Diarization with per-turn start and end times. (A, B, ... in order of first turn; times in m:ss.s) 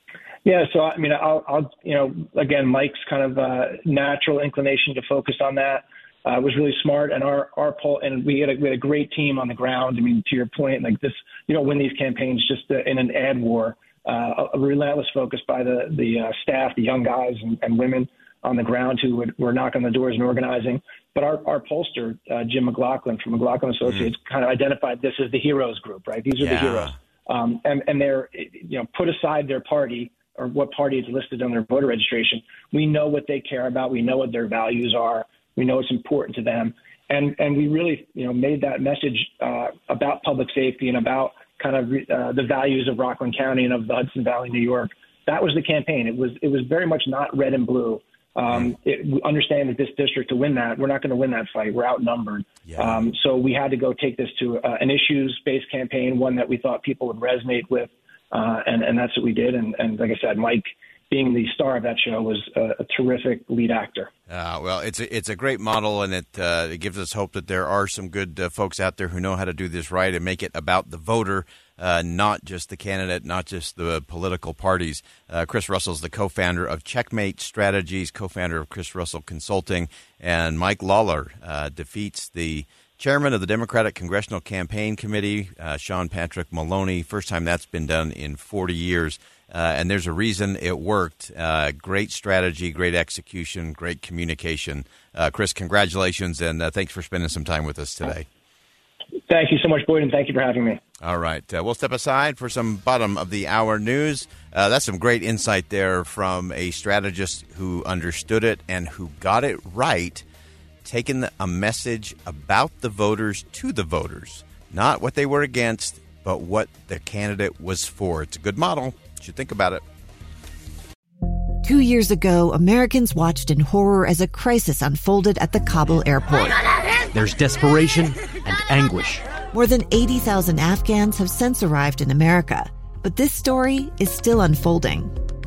0:00.4-1:04.1 A
0:26.4-0:27.0 B
0:52.6-0:53.0 B
1:04.3-1:38.3 B
1:39.3-1:40.8 A
1:41.0-1:50.2 B
1:50.8-1:59.8 B
2:01.6-2:06.6 C
2:07.1-2:09.2 D
2:09.5-2:15.1 C